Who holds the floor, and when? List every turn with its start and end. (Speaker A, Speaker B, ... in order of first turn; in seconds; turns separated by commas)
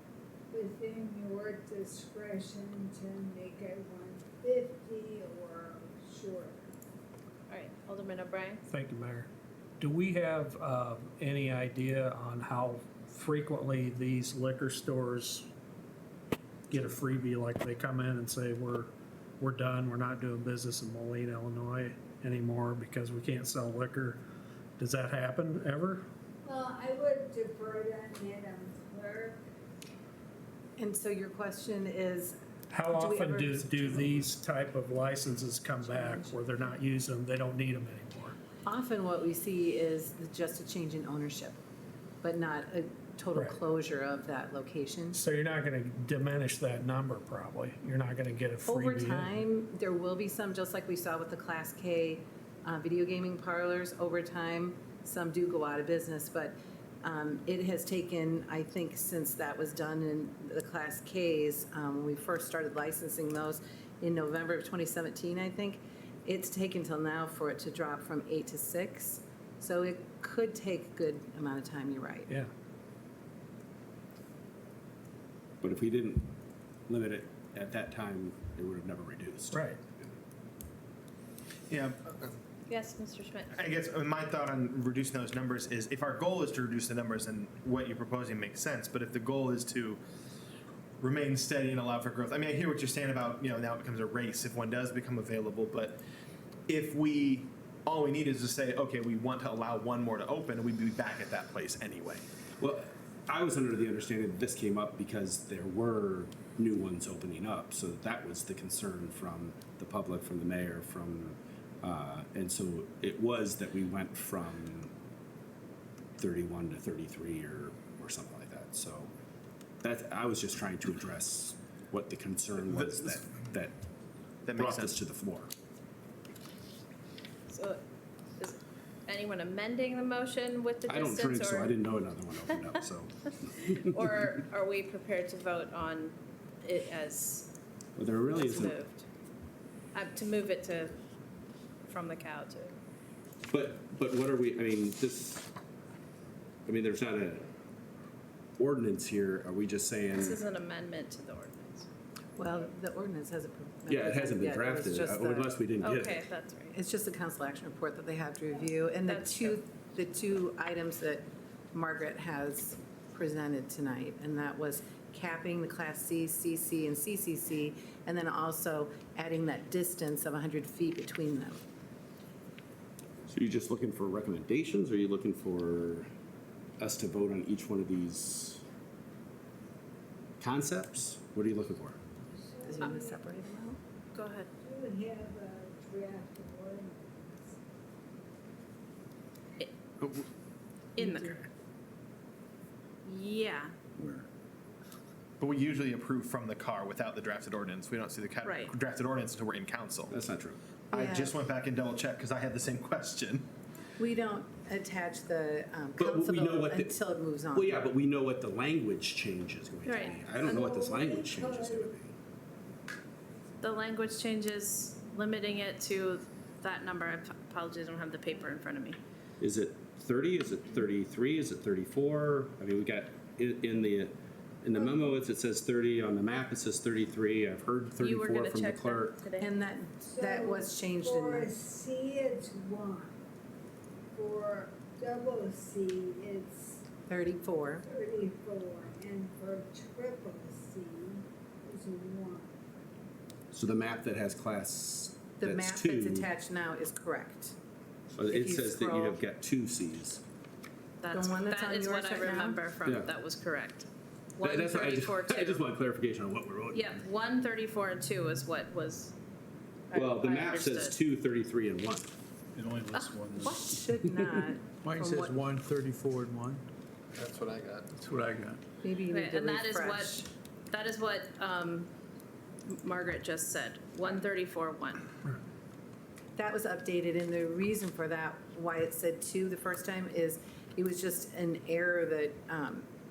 Speaker A: 0.5-6.7, Speaker B: 7.5-8.6, Speaker C: 8.7-9.3, Speaker C: 9.8-15.5, Speaker C: 16.7-24.2, Speaker C: 24.8-26.0, Speaker A: 26.4-29.5, Speaker D: 30.8-32.4, Speaker C: 32.7-38.4, Speaker D: 32.9-34.1, Speaker D: 35.8-36.4, Speaker D: 38.6-41.6, Speaker D: 42.2-45.2, Speaker C: 45.1-49.3, Speaker D: 48.6-72.3, Speaker E: 75.6-76.3, Speaker E: 76.9-80.2, Speaker F: 81.7-82.3, Speaker B: 82.7-83.5, Speaker F: 83.5-90.0, Speaker F: 91.0-96.0, Speaker F: 96.7-102.2, Speaker E: 102.6-114.9, Speaker E: 116.2-119.1, Speaker E: 119.8-123.7, Speaker F: 124.4-125.0, Speaker E: 124.5-125.5, Speaker B: 127.5-127.8, Speaker B: 128.4-131.8, Speaker E: 130.9-134.1, Speaker B: 133.8-137.5, Speaker E: 138.0-138.8, Speaker B: 138.2-139.0, Speaker B: 139.9-140.9, Speaker B: 141.8-142.8, Speaker E: 143.5-145.5, Speaker E: 146.7-147.4, Speaker E: 148.6-150.4, Speaker B: 150.2-151.9, Speaker D: 152.3-155.5, Speaker E: 153.9-156.2, Speaker B: 155.8-156.7, Speaker D: 156.7-171.6, Speaker B: 159.1-159.5, Speaker E: 173.3-176.1, Speaker E: 176.8-178.6, Speaker E: 180.4-182.0, Speaker A: 182.3-183.2, Speaker D: 182.6-183.8, Speaker B: 184.1-184.5, Speaker A: 184.6-187.6, Speaker F: 190.0-190.3, Speaker B: 190.9-191.4, Speaker B: 193.0-193.7, Speaker E: 194.0-194.3, Speaker F: 195.4-200.1, Speaker B: 198.4-198.7, Speaker E: 200.1-200.6, Speaker F: 200.9-203.5, Speaker D: 200.9-201.3, Speaker D: 204.0-207.8, Speaker E: 206.0-206.9, Speaker E: 207.5-212.1, Speaker B: 209.8-210.2, Speaker A: 210.3-212.0, Speaker B: 213.6-219.0, Speaker E: 219.4-229.1, Speaker B: 228.0-229.5, Speaker D: 229.4-231.5, Speaker A: 230.0-233.2, Speaker A: 234.1-236.8, Speaker D: 237.1-237.8, Speaker A: 237.8-242.6, Speaker E: 243.5-246.3, Speaker D: 245.4-247.6, Speaker E: 248.1-250.2, Speaker D: 248.3-249.2, Speaker B: 251.0-255.6, Speaker D: 251.1-252.6, Speaker E: 252.8-253.1, Speaker E: 254.4-257.0, Speaker B: 256.7-259.1, Speaker B: 259.9-261.0, Speaker E: 259.9-262.1, Speaker G: 262.6-263.5, Speaker B: 262.9-263.2, Speaker D: 263.3-265.3, Speaker G: 265.0-266.6, Speaker F: 267.2-267.9, Speaker G: 268.1-268.5, Speaker D: 268.8-270.3, Speaker B: 269.1-271.9, Speaker B: 272.7-275.0, Speaker D: 276.4-282.9